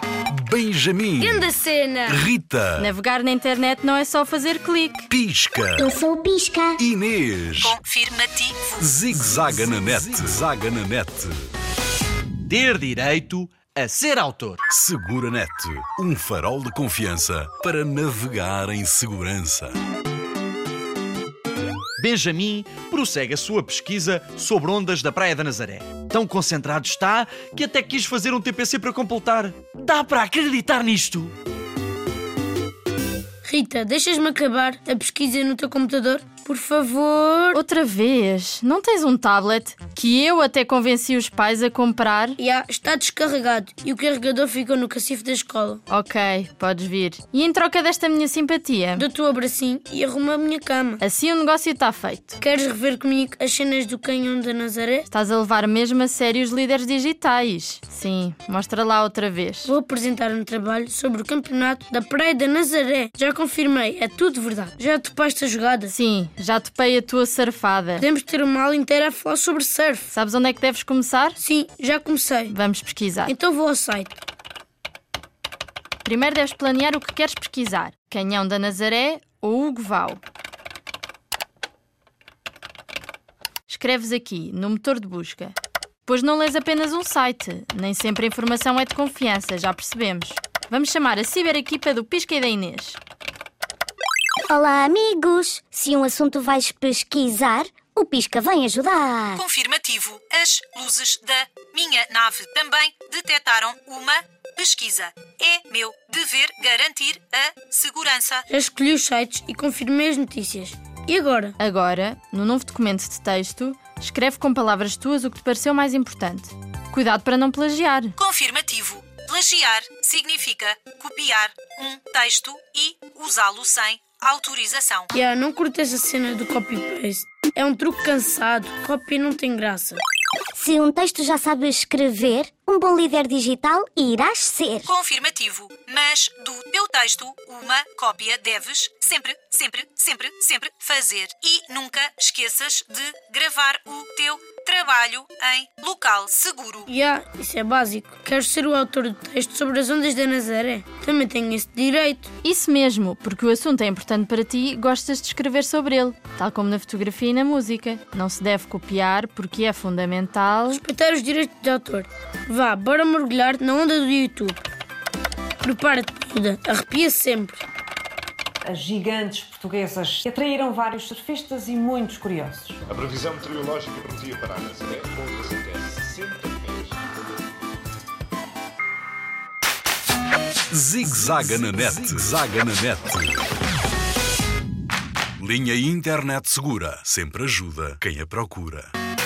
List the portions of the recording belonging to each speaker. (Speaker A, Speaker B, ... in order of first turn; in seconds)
Speaker A: 0.3-1.5, 2.1-2.9, 5.1-5.9, 6.8-7.8, 8.8-11.3, 14.7-19.8, 180.7-183.4, 185.4-188.9
Speaker B: 1.2-2.2, 33.4-37.6, 42.4-45.8, 49.0-51.0, 52.4-55.1, 59.6-65.9, 68.0-70.1, 71.4-72.6, 73.3-74.2, 108.5-111.6, 125.1-130.0, 146.9-152.3, 160.7-164.7, 165.6-167.6
Speaker C: 2.8-5.1, 37.5-42.4, 45.9-49.1, 51.0-52.4, 55.1-59.7, 65.9-68.1, 70.1-71.4, 72.5-73.3, 76.0-80.2, 83.7-85.5, 86.1-93.0, 111.6-118.1, 152.4-160.8
Speaker D: 5.8-6.8, 94.5-99.4, 130.5-134.9
Speaker E: 7.6-8.7, 99.3-108.5, 118.2-125.1, 134.8-146.9
Speaker F: 12.5-14.6, 22.0-31.3
Speaker G: 168.6-172.8
Speaker H: 172.9-177.1